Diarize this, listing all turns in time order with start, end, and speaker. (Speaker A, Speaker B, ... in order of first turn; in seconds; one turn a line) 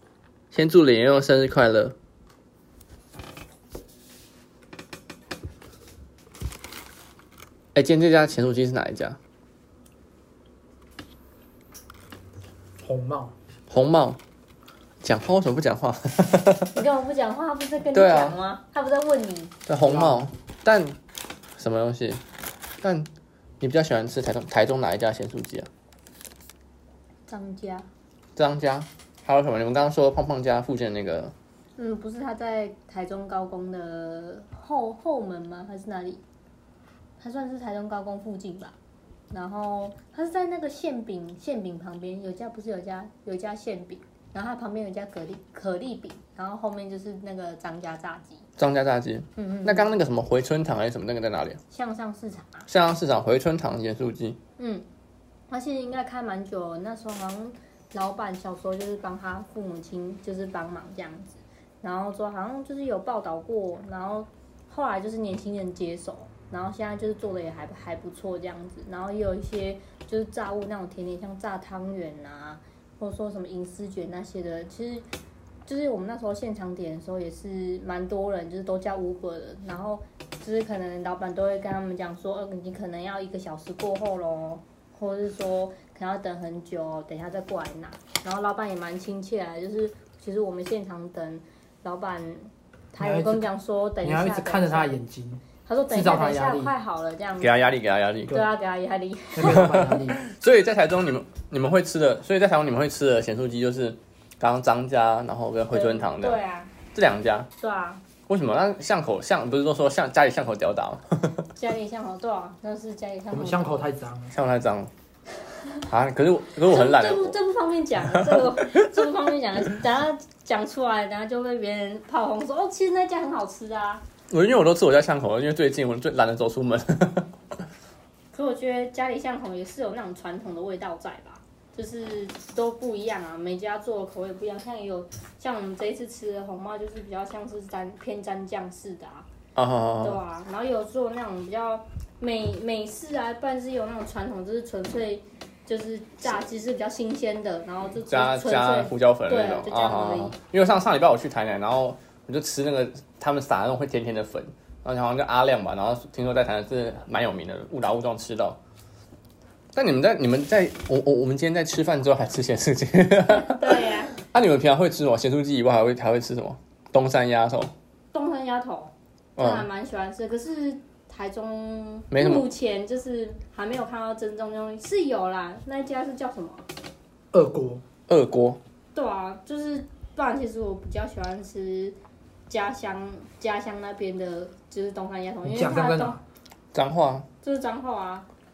Speaker A: 0.5-1.9
Speaker A: 7.7-9.2
Speaker B: 12.8-13.3
Speaker A: 13.7-14.2
Speaker A: 15.0-16.8
Speaker C: 16.7-19.5
Speaker A: 17.9-18.4
Speaker A: 19.6-20.9
Speaker B: 19.8-20.2
Speaker A: 21.6-22.2
Speaker A: 22.8-23.1
Speaker A: 23.6-25.7
Speaker C: 27.3-27.9
Speaker A: 28.4-31.3
Speaker C: 31.8-36.2
Speaker C: 37.2-38.8
Speaker C: 39.3-48.5
Speaker A: 48.6-51.6
Speaker C: 49.4-49.9
Speaker C: 51.7-52.7
Speaker A: 52.7-54.4
Speaker C: 54.6-54.9
Speaker C: 55.5-75.1
Speaker C: 75.7-95.0
Speaker B: 93.0-93.5
Speaker B: 94.0-96.7
Speaker C: 95.6-97.6
Speaker A: 97.4-98.4
Speaker C: 98.3-99.9
Speaker B: 99.3-100.2
Speaker A: 99.4-106.4
Speaker C: 105.7-106.7
Speaker A: 106.9-107.5
Speaker C: 107.6-108.0
Speaker A: 108.3-111.5
Speaker C: 111.5-113.8
Speaker B: 113.3-114.3
Speaker A: 114.3-114.9
Speaker A: 115.9-117.4
Speaker C: 116.6-124.0
Speaker A: 118.1-118.6
Speaker A: 124.3-127.3
Speaker C: 128.3-139.3
Speaker A: 139.6-140.2
Speaker C: 140.0-150.3
Speaker A: 148.1-158.6
Speaker A: 159.7-167.7
Speaker C: 163.3-164.2
Speaker C: 168.1-176.6
Speaker A: 169.4-169.7
Speaker A: 172.1-172.5
Speaker B: 177.3-177.8
Speaker A: 178.1-178.6
Speaker C: 178.9-181.9
Speaker C: 182.5-186.2
Speaker B: 185.4-186.2
Speaker A: 186.7-187.2
Speaker C: 187.4-188.3